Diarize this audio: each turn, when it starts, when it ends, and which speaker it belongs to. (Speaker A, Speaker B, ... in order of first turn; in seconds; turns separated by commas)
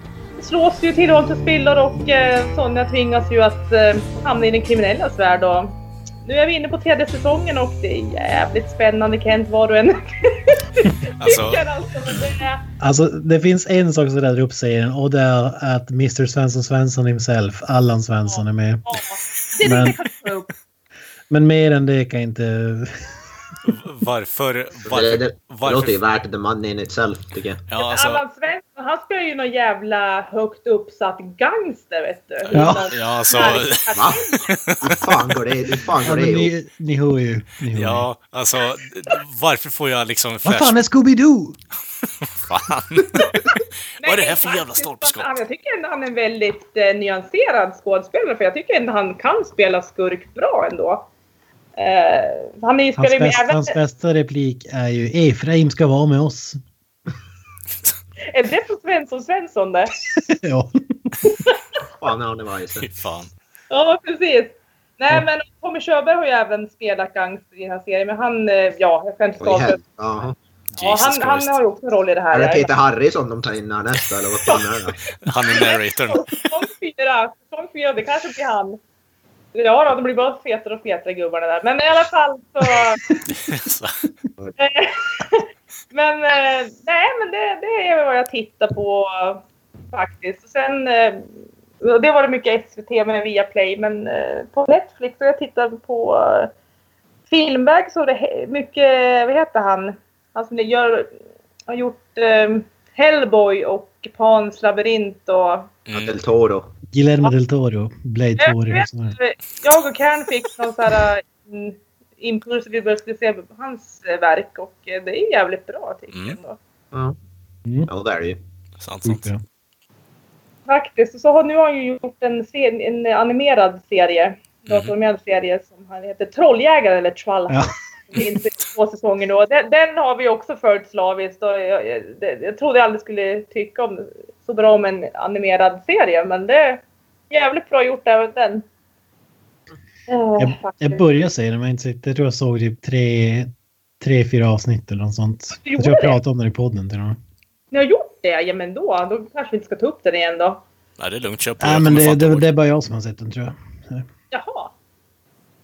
Speaker A: 0.4-12.7, Speaker B: 11.2-11.7, Speaker C: 12.8-19.0, Speaker A: 18.3-20.5, Speaker C: 19.6-20.0, Speaker C: 21.3-23.1, Speaker B: 23.6-26.0, Speaker D: 24.9-27.6, Speaker B: 27.7-28.2, Speaker A: 27.8-34.5, Speaker B: 32.5-33.9, Speaker C: 32.5-32.9, Speaker D: 34.0-34.2, Speaker B: 34.5-35.0, Speaker D: 34.8-36.5, Speaker C: 36.0-38.1, Speaker B: 37.7-40.8, Speaker C: 40.5-41.6, Speaker B: 42.2-45.3, Speaker A: 44.0-51.1, Speaker A: 51.8-53.8, Speaker C: 53.0-56.6, Speaker A: 58.2-59.9, Speaker C: 60.1-61.2, Speaker A: 61.2-61.6, Speaker D: 62.0-62.9, Speaker B: 62.8-63.3, Speaker A: 63.7-69.8, Speaker D: 69.4-70.4, Speaker B: 70.7-71.6, Speaker A: 70.8-72.7, Speaker D: 72.3-75.0, Speaker A: 74.5-78.8, Speaker B: 75.2-76.3, Speaker A: 79.5-83.2, Speaker B: 83.3-84.0, Speaker A: 84.6-91.3, Speaker A: 91.8-96.5, Speaker A: 97.3-101.1, Speaker A: 101.7-105.7, Speaker B: 105.9-106.1, Speaker D: 105.9-106.7, Speaker C: 106.9-109.2, Speaker A: 108.4-116.6, Speaker D: 117.9-118.4, Speaker B: 118.8-119.2, Speaker C: 119.0-119.4, Speaker A: 120.7-138.7, Speaker A: 140.1-141.1, Speaker C: 140.4-147.2, Speaker A: 145.5-146.2, Speaker A: 147.7-150.6, Speaker B: 151.0-152.4, Speaker C: 151.6-154.1, Speaker A: 154.3-154.7